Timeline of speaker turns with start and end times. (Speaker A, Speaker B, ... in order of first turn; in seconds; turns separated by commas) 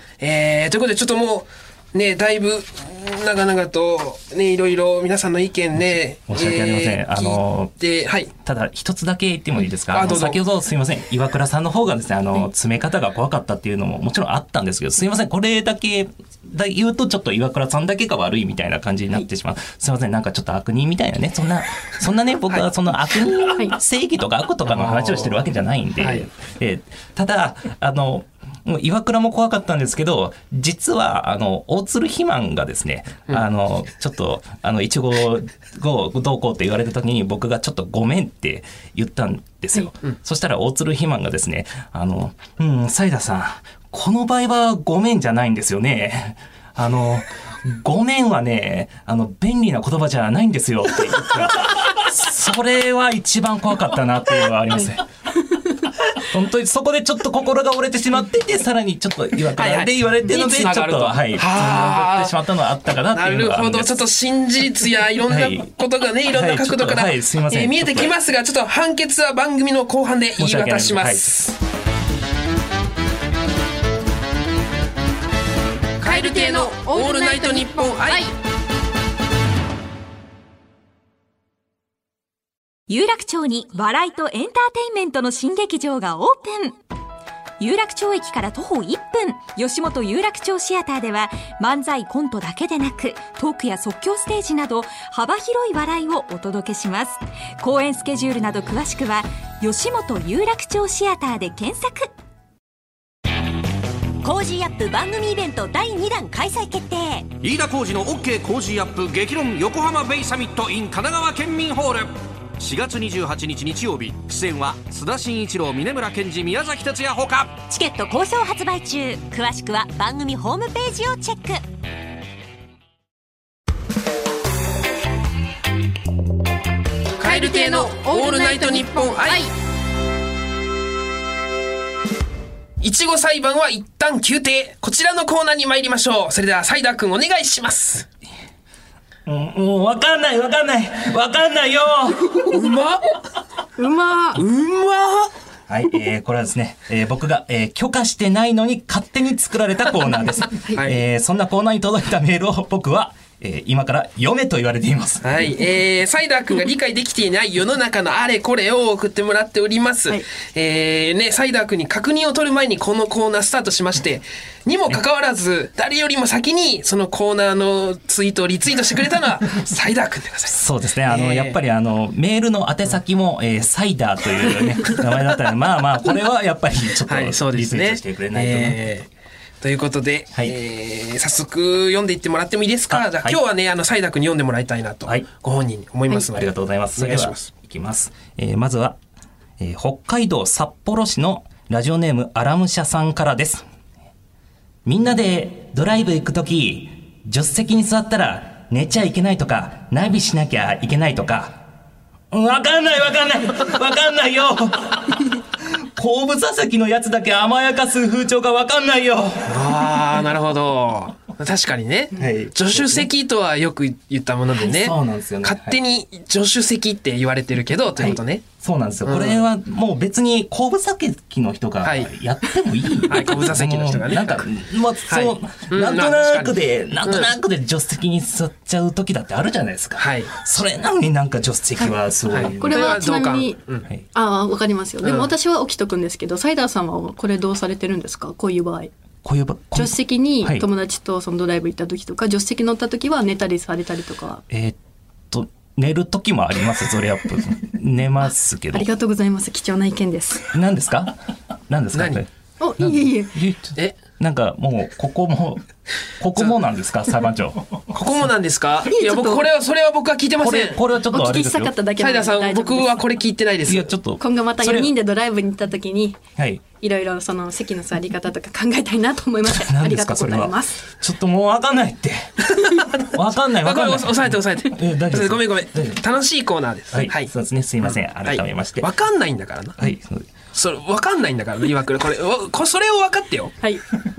Speaker A: 0.2-8.3, Speaker B: 6.3-7.7, Speaker B: 8.4-55.0, Speaker A: 9.9-10.4, Speaker A: 24.7-25.4, Speaker A: 26.0-26.3, Speaker B: 56.1-64.0, Speaker A: 59.5-62.4, Speaker A: 63.1-71.5, Speaker B: 65.3-65.7, Speaker B: 66.3-68.1, Speaker B: 70.4-71.3, Speaker A: 76.0-78.3, Speaker C: 76.0-78.3, Speaker D: 82.9-86.8, Speaker D: 87.6-102.1, Speaker D: 104.2-107.3, Speaker E: 107.4-117.6, Speaker D: 117.7-121.6, Speaker A: 127.2-129.5, Speaker C: 127.2-129.5, Speaker A: 132.8-138.1, Speaker B: 139.3-142.6, Speaker A: 142.5-143.2, Speaker C: 143.8-144.4, Speaker A: 144.4-145.3, Speaker B: 145.7-155.6, Speaker A: 150.7-151.0, Speaker A: 155.2-171.6, Speaker B: 170.5-178.9, Speaker A: 177.1-179.1, Speaker A: 179.6-187.5, Speaker B: 182.9-183.4, Speaker B: 186.2-189.0, Speaker B: 189.6-193.6, Speaker B: 194.9-201.6, Speaker B: 202.3-209.7, Speaker A: 209.5-218.4, Speaker B: 212.1-213.1, Speaker B: 214.5-215.8, Speaker B: 218.0-233.0, Speaker A: 219.1-219.4, Speaker A: 221.8-222.1, Speaker A: 223.1-224.5, Speaker A: 225.1-227.3, Speaker A: 230.0-230.3, Speaker A: 232.3-233.9, Speaker C: 232.6-233.6, Speaker C: 234.1-238.9, Speaker A: 235.0-235.3, Speaker B: 239.2-240.7, Speaker C: 239.7-244.4, Speaker B: 244.5-244.8, Speaker B: 245.3-248.9, Speaker C: 248.7-250.5, Speaker B: 250.5-255.7, Speaker A: 251.9-252.2, Speaker C: 252.6-253.4, Speaker B: 256.2-257.9, Speaker A: 257.9-260.8, Speaker C: 258.9-259.4, Speaker B: 260.4-261.7, Speaker C: 261.1-263.0, Speaker A: 262.0-263.9, Speaker B: 263.7-264.9, Speaker C: 264.2-266.2, Speaker B: 266.4-266.6, Speaker C: 266.8-270.9, Speaker B: 269.5-276.0, Speaker A: 273.6-279.8, Speaker B: 276.9-278.9, Speaker B: 279.8-280.3, Speaker A: 280.5-283.6